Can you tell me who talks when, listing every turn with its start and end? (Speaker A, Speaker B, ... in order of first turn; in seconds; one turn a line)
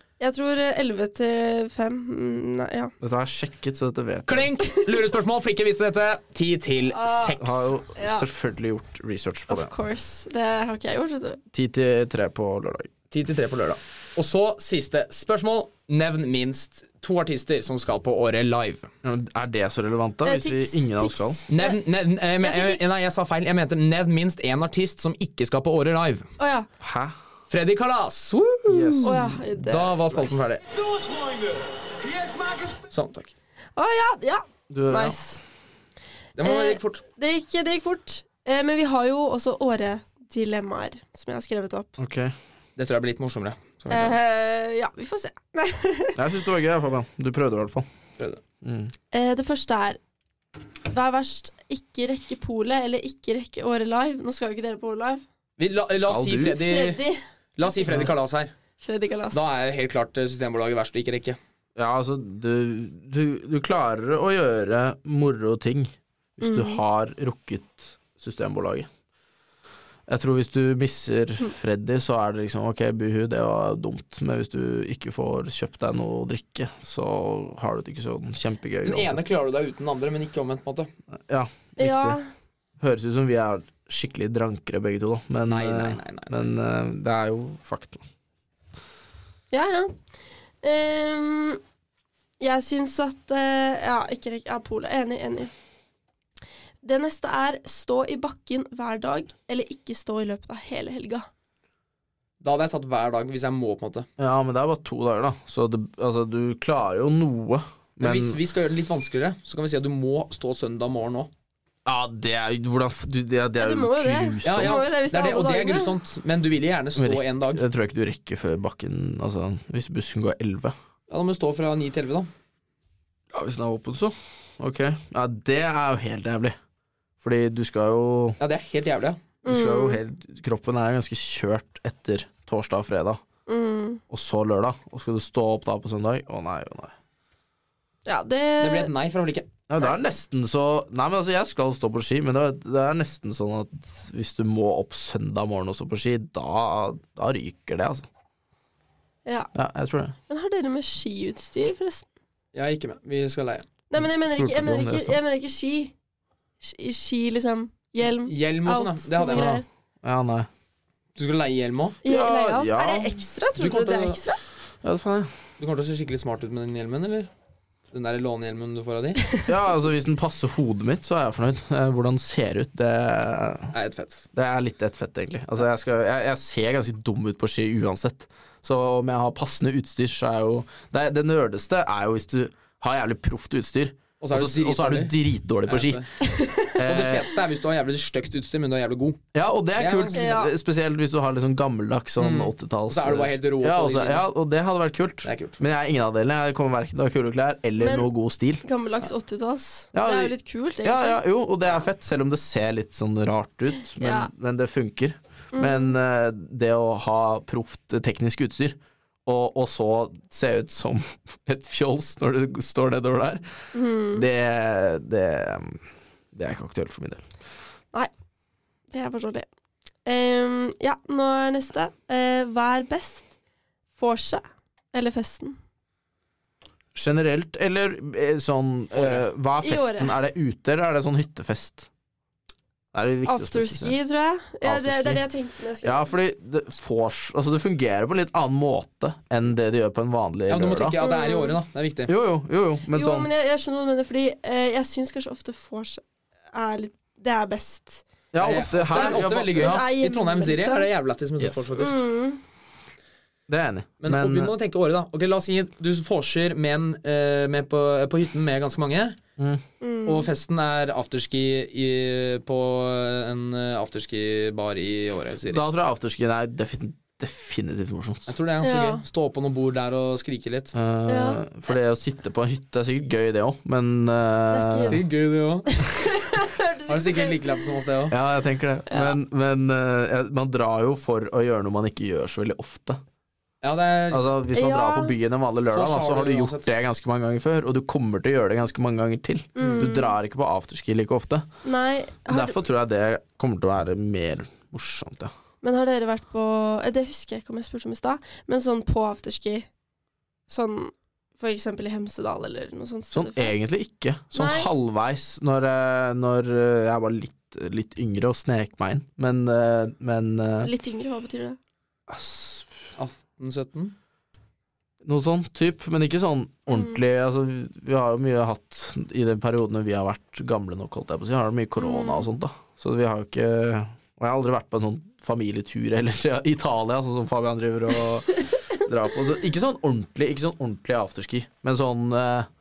Speaker A: 0.2-2.9
Speaker B: 3.0-4.5
Speaker C: 4.3-7.7
Speaker A: 4.7-5.0
Speaker A: 6.9-7.4
Speaker B: 7.3-9.7
Speaker A: 7.9-8.3
Speaker A: 9.5-11.4
Speaker B: 11.5-12.9
Speaker C: 13.1-18.9
Speaker B: 19.0-21.4
Speaker A: 20.2-21.8
Speaker C: 21.5-26.3
Speaker A: 22.4-23.0
Speaker A: 26.4-26.7
Speaker B: 26.8-27.1
Speaker C: 27.5-30.6
Speaker B: 28.7-29.4
Speaker A: 29.0-30.4
Speaker C: 32.1-33.3
Speaker A: 33.8-35.4
Speaker B: 34.7-35.2
Speaker C: 36.4-37.0
Speaker A: 36.4-41.9
Speaker B: 42.0-42.4
Speaker C: 42.8-44.2
Speaker A: 43.9-46.2
Speaker B: 46.2-47.9
Speaker B: 48.6-48.9
Speaker A: 49.1-50.0
Speaker A: 50.9-55.2
Speaker C: 55.6-57.0
Speaker B: 56.0-56.6
Speaker A: 56.6-58.1
Speaker C: 57.6-58.5
Speaker A: 58.8-59.5
Speaker C: 59.3-61.4
Speaker B: 61.8-68.9
Speaker A: 66.4-66.8
Speaker B: 70.1-79.2
Speaker C: 78.8-80.9
Speaker B: 81.3-82.2
Speaker A: 81.8-82.3
Speaker B: 82.8-88.0
Speaker C: 85.5-86.3
Speaker A: 89.5-90.0
Speaker A: 90.6-91.6
Speaker A: 92.4-95.5
Speaker A: 96.8-101.3
Speaker C: 102.4-104.1
Speaker B: 104.2-108.4
Speaker C: 108.0-111.3
Speaker B: 111.8-114.9
Speaker A: 113.6-116.0
Speaker C: 114.4-117.6
Speaker B: 117.0-120.8
Speaker C: 121.1-122.3
Speaker B: 123.3-126.6
Speaker B: 127.2-128.4
Speaker C: 128.4-129.3
Speaker A: 129.4-130.0
Speaker B: 129.4-133.2
Speaker A: 133.5-134.0
Speaker B: 134.1-136.9
Speaker A: 138.1-138.9
Speaker C: 138.6-139.5
Speaker B: 139.7-148.1
Speaker B: 149.5-150.2
Speaker A: 150.3-152.1
Speaker C: 152.5-153.7
Speaker A: 153.9-155.9
Speaker B: 154.0-155.2
Speaker A: 156.6-159.7
Speaker C: 158.2-159.6
Speaker B: 159.4-160.5
Speaker C: 161.2-162.0
Speaker A: 162.0-164.4
Speaker B: 162.1-163.2
Speaker C: 163.6-164.2
Speaker B: 164.8-165.3
Speaker C: 165.6-167.3
Speaker C: 167.9-169.2
Speaker B: 169.5-173.7
Speaker C: 173.7-174.3
Speaker B: 174.3-186.0
Speaker C: 184.2-185.1
Speaker C: 185.7-186.1
Speaker A: 186.2-186.8
Speaker B: 186.8-187.3
Speaker C: 186.8-189.2
Speaker B: 189.3-198.6
Speaker C: 189.8-190.3
Speaker A: 190.1-190.5
Speaker C: 192.2-194.2
Speaker C: 195.2-195.6
Speaker A: 197.8-198.1
Speaker A: 198.6-201.2
Speaker B: 199.9-213.4
Speaker A: 204.0-204.3
Speaker A: 205.5-205.9
Speaker A: 213.7-214.3
Speaker B: 214.1-217.2
Speaker A: 218.9-219.5
Speaker A: 220.1-223.3
Speaker A: 224.0-225.6
Speaker B: 226.9-231.9
Speaker C: 228.9-229.2
Speaker A: 229.6-230.1
Speaker B: 232.9-233.9
Speaker A: 233.3-236.1
Speaker B: 234.6-235.3
Speaker B: 235.8-241.0
Speaker C: 240.5-242.1
Speaker A: 241.0-241.6
Speaker B: 242.1-243.3
Speaker A: 242.9-248.1
Speaker B: 248.3-249.8
Speaker C: 248.4-252.0
Speaker A: 248.8-250.9
Speaker A: 251.8-252.4
Speaker B: 253.5-254.5
Speaker C: 254.0-259.2
Speaker B: 259.4-259.6
Speaker A: 259.8-260.3
Speaker C: 260.1-265.6
Speaker B: 265.5-268.3
Speaker C: 268.3-270.7
Speaker A: 268.6-269.0
Speaker B: 270.7-275.0
Speaker A: 271.1-271.4
Speaker A: 274.5-275.0
Speaker C: 274.8-275.8
Speaker A: 275.7-277.6
Speaker C: 276.9-278.2
Speaker B: 278.1-283.0
Speaker A: 278.9-279.2
Speaker C: 283.6-284.3
Speaker B: 284.1-291.5
Speaker A: 284.5-285.1
Speaker C: 285.7-286.7
Speaker A: 289.6-290.1
Speaker A: 291.6-292.6
Speaker B: 292.3-295.3
Speaker A: 295.6-299.7
Speaker A: 300.5-303.6
Speaker B: 303.1-310.7
Speaker A: 304.3-304.7
Speaker A: 310.6-311.6
Speaker B: 312.1-312.7
Speaker C: 313.0-313.9
Speaker B: 315.0-332.5
Speaker A: 321.8-322.3